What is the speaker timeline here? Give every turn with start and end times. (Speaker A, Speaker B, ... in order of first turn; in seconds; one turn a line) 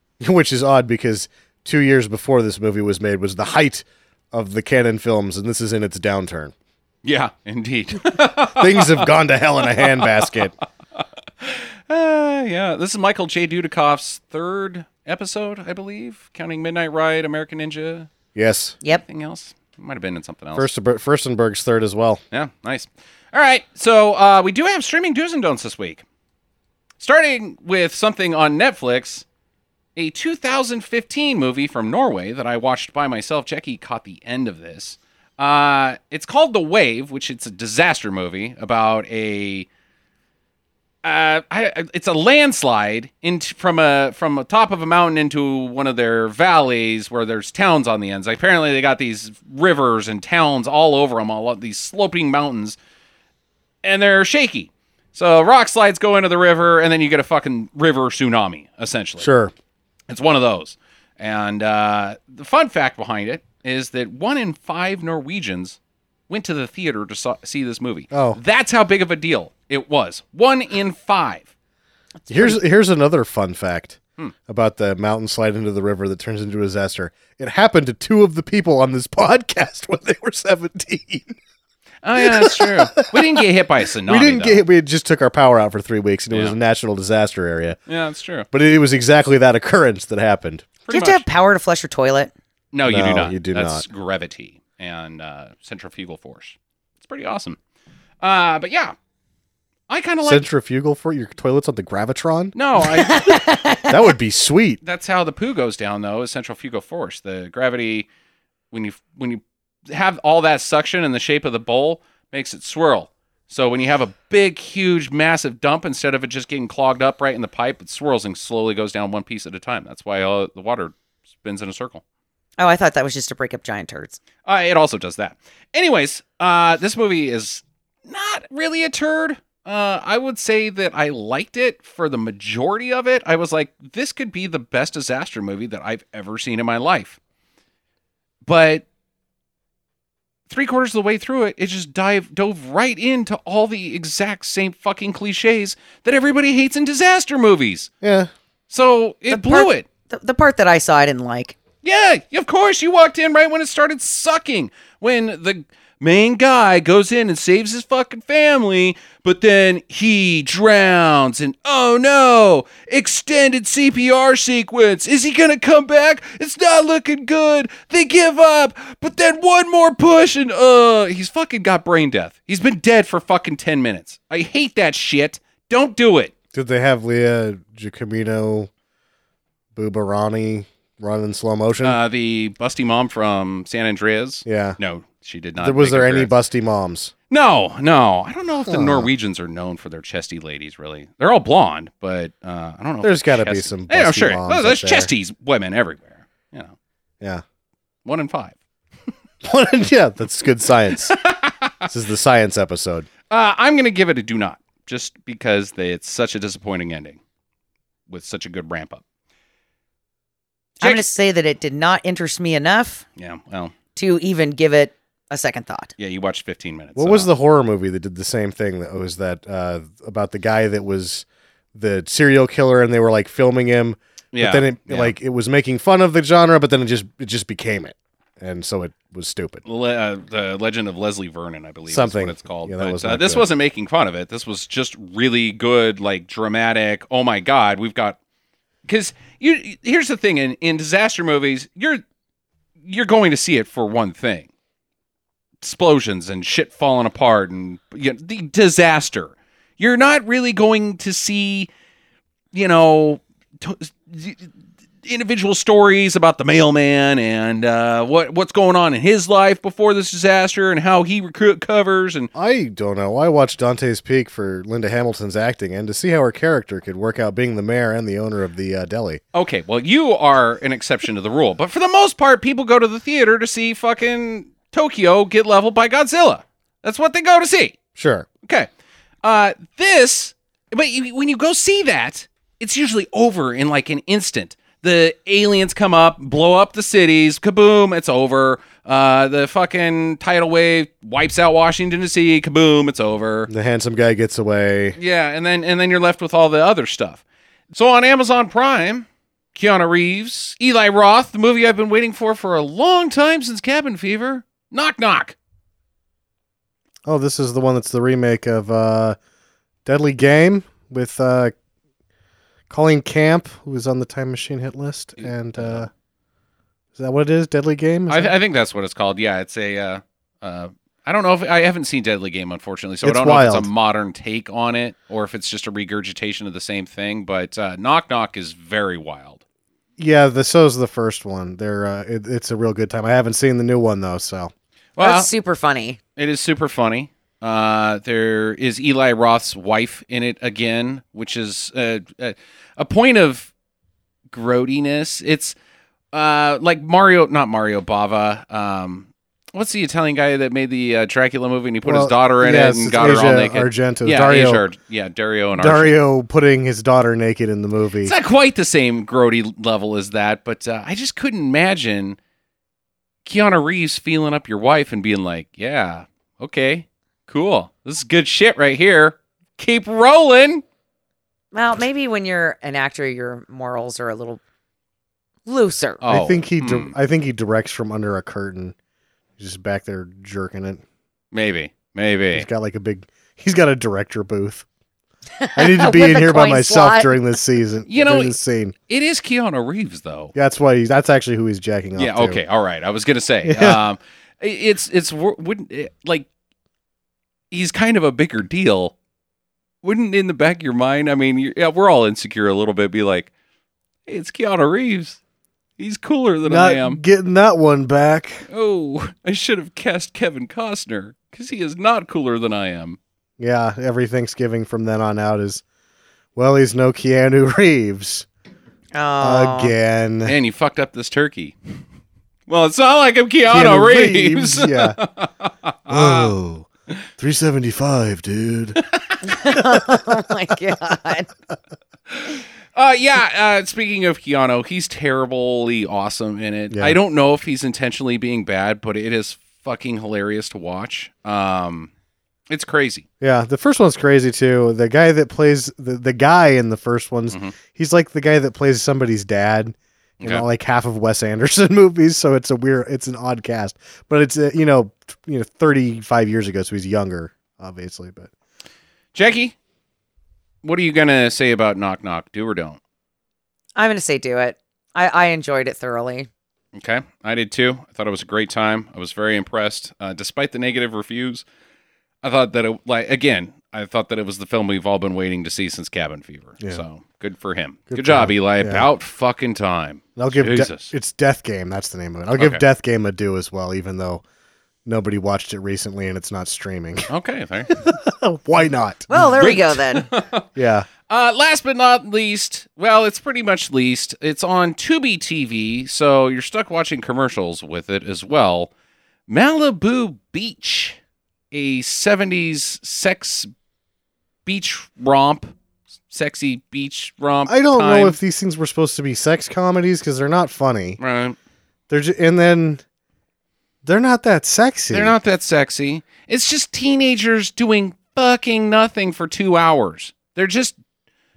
Speaker A: 0.2-6.5
Speaker B: 7.0-9.1
Speaker A: 8.2-10.5
Speaker B: 9.8-10.1
Speaker B: 11.0-18.1
Speaker A: 18.4-18.8
Speaker B: 18.9-20.7
Speaker A: 20.6-22.2
Speaker B: 22.3-26.0
Speaker B: 27.0-29.2
Speaker B: 30.0-39.7
Speaker B: 41.0-52.8
Speaker B: 53.8-59.3
Speaker A: 59.2-59.5
Speaker B: 60.1-71.5
Speaker A: 68.1-68.4
Speaker C: 72.2-72.6
Speaker A: 72.3-81.4
Speaker B: 82.0-84.6
Speaker A: 82.2-83.5
Speaker A: 84.0-87.8
Speaker B: 87.9-88.5
Speaker A: 88.5-90.7
Speaker B: 90.8-91.2
Speaker C: 90.9-92.3
Speaker B: 92.7-97.6
Speaker A: 92.9-93.8
Speaker B: 98.2-99.0
Speaker B: 99.9-100.5
Speaker A: 100.2-102.5
Speaker B: 102.5-103.5
Speaker C: 102.9-104.0
Speaker A: 103.8-104.8
Speaker B: 104.8-108.1
Speaker B: 108.7-122.0
Speaker C: 122.6-124.2
Speaker B: 124.5-137.2
Speaker B: 138.4-138.8
Speaker B: 140.5-147.9
Speaker A: 148.0-148.3
Speaker B: 148.7-149.9
Speaker C: 149.3-151.6
Speaker B: 151.8-176.3
Speaker A: 176.5-178.7
Speaker A: 179.8-182.0
Speaker B: 181.8-186.3
Speaker A: 184.4-184.8
Speaker A: 185.6-187.1
Speaker B: 187.3-196.8
Speaker A: 188.7-189.1
Speaker A: 193.0-195.1
Speaker B: 198.1-198.6
Speaker A: 199.4-201.2
Speaker B: 201.1-201.9
Speaker A: 201.9-203.1
Speaker B: 203.3-207.2
Speaker B: 208.1-209.0
Speaker C: 210.8-213.1
Speaker B: 213.2-213.7
Speaker C: 214.0-215.9
Speaker B: 216.0-217.3
Speaker A: 217.0-229.6
Speaker B: 224.3-225.2
Speaker B: 229.7-238.2
Speaker A: 231.9-233.5
Speaker B: 238.8-242.0
Speaker B: 242.8-244.5
Speaker B: 245.6-251.7
Speaker B: 252.5-254.5
Speaker B: 255.0-262.3
Speaker A: 262.4-269.2
Speaker B: 269.3-277.8
Speaker A: 278.0-278.3
Speaker B: 279.2-293.5
Speaker A: 293.5-295.0
Speaker B: 295.0-305.4
Speaker A: 307.1-309.2
Speaker A: 309.9-311.6
Speaker A: 312.7-315.9
Speaker B: 315.2-315.8
Speaker A: 316.9-318.4
Speaker B: 318.1-329.4
Speaker A: 323.0-323.7
Speaker A: 330.0-334.5
Speaker B: 335.0-335.3
Speaker C: 335.0-336.0
Speaker B: 336.2-343.5
Speaker B: 344.3-345.6
Speaker B: 346.1-355.9
Speaker A: 351.8-354.6
Speaker A: 355.6-358.1
Speaker B: 358.0-362.2
Speaker B: 363.2-370.6
Speaker C: 371.5-374.4
Speaker C: 375.5-376.0
Speaker B: 376.0-376.9
Speaker A: 376.1-378.8
Speaker A: 379.4-380.8
Speaker B: 381.3-382.5
Speaker A: 382.3-384.7
Speaker C: 385.4-387.2
Speaker A: 385.6-388.8
Speaker B: 387.9-388.4
Speaker B: 388.9-390.4
Speaker A: 390.4-392.4
Speaker B: 392.0-396.3
Speaker A: 393.4-393.8
Speaker B: 397.5-398.9
Speaker B: 399.8-403.3
Speaker B: 404.1-405.2
Speaker B: 405.8-407.0
Speaker A: 406.4-408.5
Speaker B: 408.5-413.0
Speaker A: 413.4-415.6
Speaker A: 416.4-418.3
Speaker C: 418.9-419.8
Speaker A: 419.2-420.4
Speaker B: 420.2-421.6
Speaker B: 422.5-426.3
Speaker A: 423.5-425.0
Speaker A: 425.9-426.7
Speaker A: 427.2-428.8
Speaker B: 428.8-429.2
Speaker C: 429.2-431.3
Speaker A: 429.6-430.1
Speaker B: 432.1-441.9
Speaker A: 436.7-437.0
Speaker B: 442.5-443.1
Speaker A: 443.2-458.3
Speaker B: 447.3-447.6
Speaker B: 459.1-459.6
Speaker B: 460.6-462.8
Speaker C: 463.8-466.3
Speaker B: 466.7-471.4
Speaker B: 472.2-480.9
Speaker A: 477.9-478.9
Speaker A: 480.2-484.2
Speaker B: 482.4-482.6
Speaker A: 484.9-487.1
Speaker B: 487.1-487.9
Speaker A: 487.7-489.3
Speaker C: 489.1-490.1
Speaker B: 489.1-490.5
Speaker A: 490.6-490.9
Speaker B: 491.1-498.7
Speaker B: 499.3-501.0
Speaker B: 501.5-503.5
Speaker B: 504.5-505.5
Speaker B: 506.1-508.2
Speaker A: 507.5-511.0
Speaker B: 511.0-511.4
Speaker A: 511.9-512.8
Speaker A: 513.8-515.1
Speaker B: 514.9-520.8